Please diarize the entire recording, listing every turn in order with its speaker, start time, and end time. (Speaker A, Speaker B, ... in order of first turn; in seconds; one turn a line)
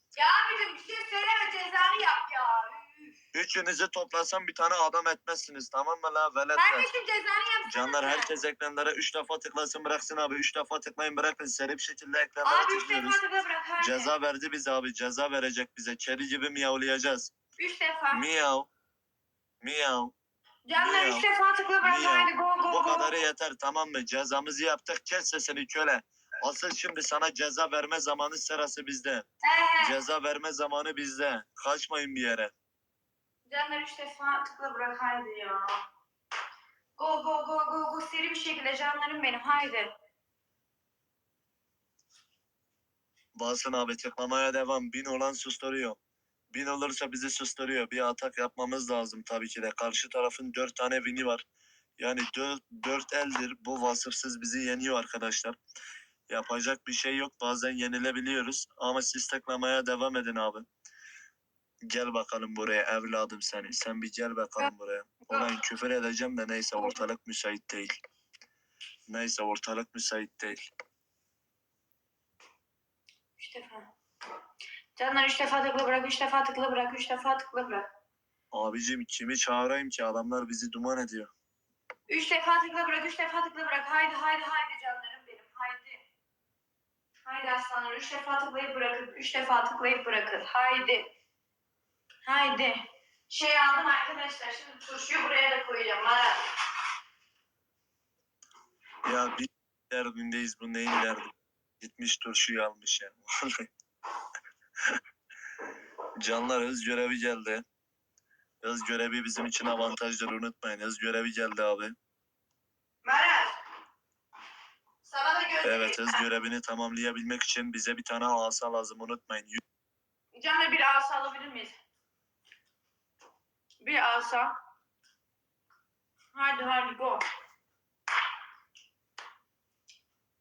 Speaker A: 0.2-3.2
Speaker B: 3.3-6.9
Speaker A: 6.6-8.3
Speaker B: 7.7-13.2
Speaker A: 12.4-14.1
Speaker B: 13.8-17.3
Speaker A: 17.6-18.2
Speaker B: 18.1-18.7
Speaker B: 19.6-20.1
Speaker A: 20.7-23.1
Speaker B: 20.8-21.2
Speaker B: 21.8-29.2
Speaker A: 29.4-30.0
Speaker B: 29.8-32.5
Speaker A: 33.5-35.8
Speaker A: 37.0-39.9
Speaker B: 43.3-46.0
Speaker B: 46.5-51.4
Speaker B: 52.0-55.6
Speaker B: 56.3-60.6
Speaker B: 61.9-67.9
Speaker A: 66.7-67.0
Speaker B: 69.1-70.6
Speaker A: 73.4-73.9
Speaker A: 75.0-77.9
Speaker B: 78.5-81.3
Speaker A: 82.1-86.0
Speaker A: 87.2-91.1
Speaker A: 92.2-96.4
Speaker B: 99.0-103.7
Speaker B: 106.2-107.6
Speaker B: 108.6-111.9
Speaker A: 113.0-113.6
Speaker A: 115.0-116.2
Speaker B: 115.6-119.6
Speaker A: 120.4-121.8
Speaker A: 123.8-124.5
Speaker A: 126.3-127.2